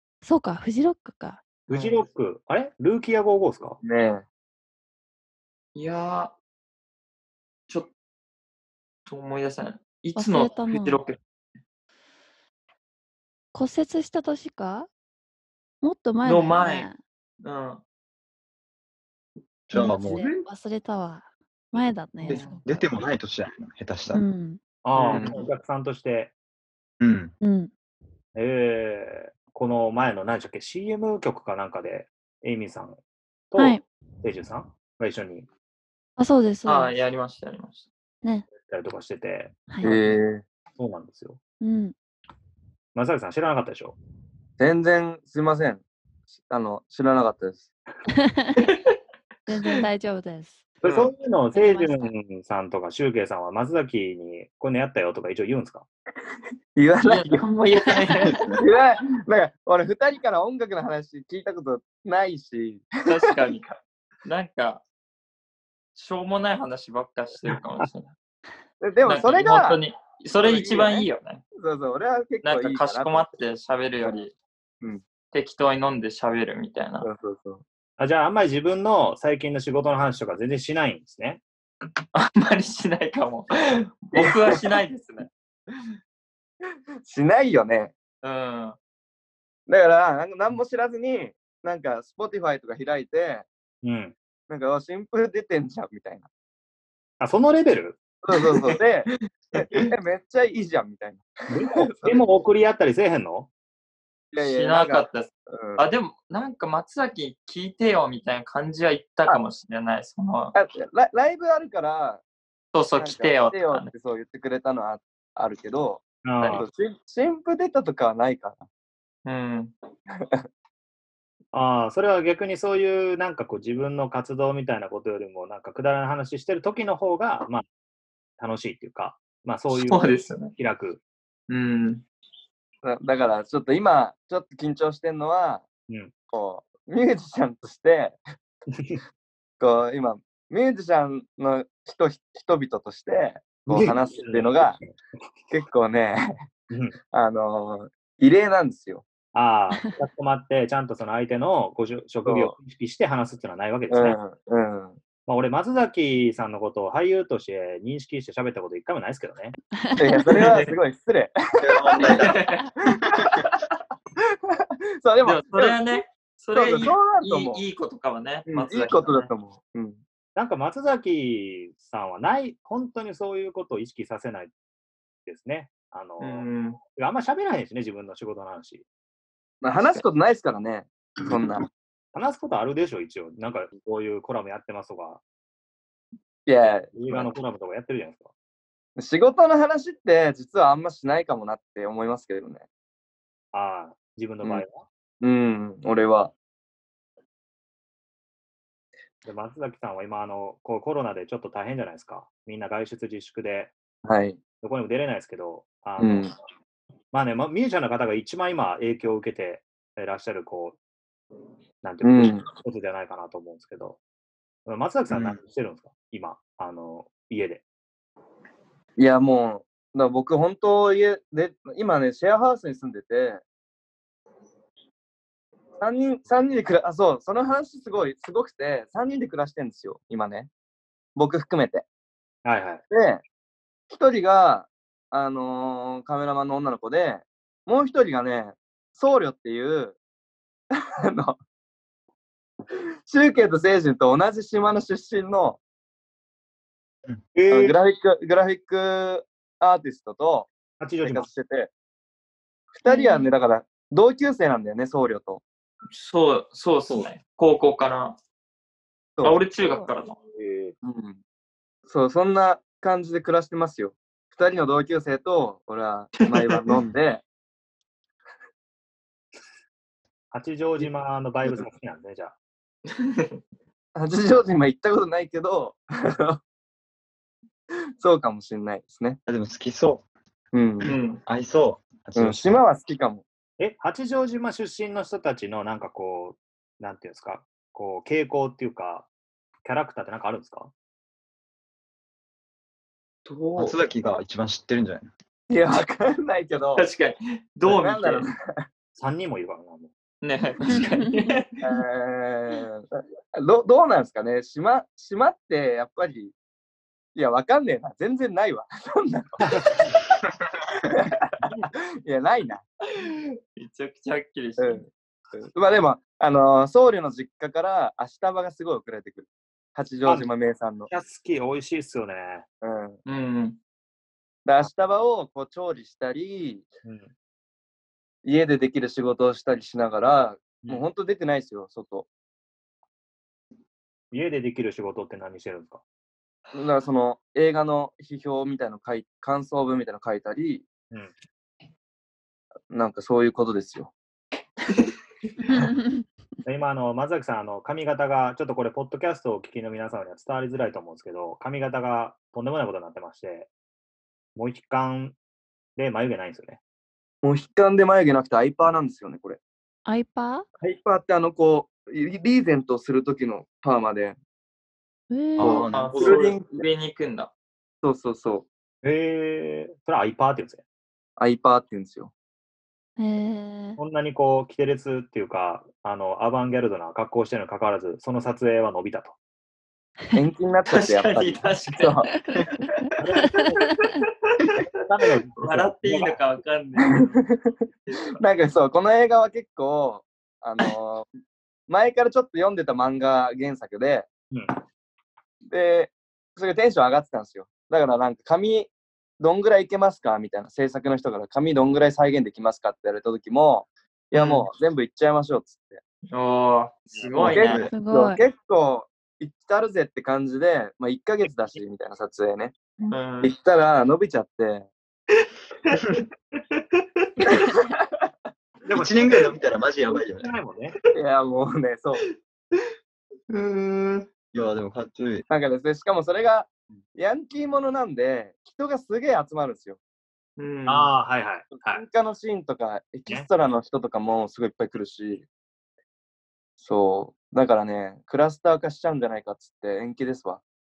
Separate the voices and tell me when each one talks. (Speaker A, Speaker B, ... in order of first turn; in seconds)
Speaker A: 0.2-1.4, 10.2-11.0, 13.5-14.9, 15.8-17.0, 19.7-22.8, 24.1-24.6, 27.4-27.7, 33.6-33.9, 36.2-37.0, 39.7-40.0, 41.6-41.9, 48.1-48.7, 49.5-50.8, 51.5-52.1, 159.8-160.4, 252.9-253.3, 259.6-259.9, 300.7-301.3, 345.4-346.0, 359.9-360.5, 365.1-365.6, 373.0-373.8, 382.1-382.4, 383.7-384.0, 407.7-408.2
Speaker B: 1.7-2.0, 5.8-6.3, 9.1-11.2, 16.2-16.9, 17.4-17.8, 19.8-20.4, 22.3-22.6, 24.9-25.4, 36.7-37.9, 57.0-58.5, 63.0-64.8, 66.0-68.1, 69.0-71.4, 72.4-74.3, 75.3-77.1, 82.1-85.8, 88.2-88.8, 99.6-99.9, 104.4-110.5, 112.7-113.9, 119.2-119.7, 129.7-130.5, 131.5-132.0, 160.3-160.7, 162.0-162.6, 165.2-169.3, 176.2-176.8, 255.9-258.2, 259.2-260.2, 272.9-273.3, 280.9-281.2, 293.2-293.8, 296.8-298.3, 300.2-301.6, 312.9-314.8, 323.1-323.6, 365.7-367.3, 380.7-382.1, 385.4-387.2, 404.1-404.5, 406.1-407.7, 412.9-413.3, 416.3-416.6, 423.3-424.1, 430.4-430.9
Speaker C: 1.7-3.8, 24.8-26.3, 28.4-33.0, 33.5-35.5, 38.6-39.6, 40.8-41.4, 43.0-44.0, 50.8-55.9, 78.0-81.4, 93.8-94.2, 97.2-98.0, 101.5-103.5, 116.2-116.7, 121.5-127.7, 128.4-131.0, 143.7-144.9, 149.3-154.2, 155.3-159.6, 170.4-174.5, 175.3-178.8, 182.1-185.2, 186.9-188.3, 193.5-194.8, 199.2-203.7, 204.6-206.3, 207.1-210.8, 211.8-214.0, 214.7-217.6, 232.4-232.8, 247.3-247.8, 250.8-251.3, 260.3-260.7, 270.3-272.3, 283.6-289.1, 289.6-290.7, 298.9-299.9, 309.5-309.7, 320.1-320.3, 320.9-322.5, 326.9-327.1, 334.1-335.8, 346.5-353.5, 354.4-355.2, 355.8-356.6, 368.8-370.6, 373.8-379.1, 383.0-383.8, 384.8-386.3, 418.6-419.1, 420.2-420.8, 430.7-431.9
Speaker D: 3.8-4.2, 25.1-25.4, 39.8-40.4, 44.6-45.8, 46.4-47.6, 56.8-63.1, 68.8-69.8, 70.4-73.3, 77.0-77.6, 84.1-84.6, 87.0-87.9, 89.7-93.5, 94.5-96.3, 98.2-102.3, 104.3-105.8, 110.5-112.2, 113.0-118.6, 120.2-120.4, 132.8-135.7, 136.3-138.2, 139.6-144.8, 145.5-146.2, 147.1-149.1, 152.2-152.5, 153.9-155.0, 160.0-163.6, 164.5-166.0, 166.5-167.6, 168.5-170.0, 179.6-181.7, 186.5-187.3, 189.0-192.7, 195.2-196.3, 204.0-204.4, 206.0-206.3, 212.0-212.5, 219.0-223.4, 225.8-230.5, 231.2-231.8, 232.9-233.2, 233.9-240.0, 241.0-241.4, 243.1-245.6, 247.5-250.5, 251.0-251.7, 252.7-255.4, 259.2-259.5, 260.8-261.2, 261.9-267.2, 273.9-276.4, 278.0-279.2, 280.5-280.9, 282.2-283.2, 295.5-296.9, 297.6-298.6, 301.6-306.3, 307.1-309.8, 310.9-312.6, 314.6-320.9, 322.6-323.0, 324.4-326.7, 328.2-332.1, 336.5-340.7, 342.7-343.9, 357.2-359.4, 360.6-364.2, 365.4-366.7, 367.8-368.5, 371.2-372.1, 380.1-382.1, 386.9-387.5, 388.2-391.1, 391.7-394.1, 395.5-405.8, 407.1-412.6, 413.2-414.7, 417.3-418.1, 420.9-422.1, 425.3-429.8, 431.6-435.3, 436.6-440.4
Speaker E: 19.7-20.3, 22.2-24.2, 27.0-27.3, 58.3-58.6, 161.6-163.5, 215.1-215.4, 279.3-280.1, 280.8-282.6, 293.6-295.1, 365.4-366.2, 407.2-407.7, 418.7-420.3, 424.3-425.3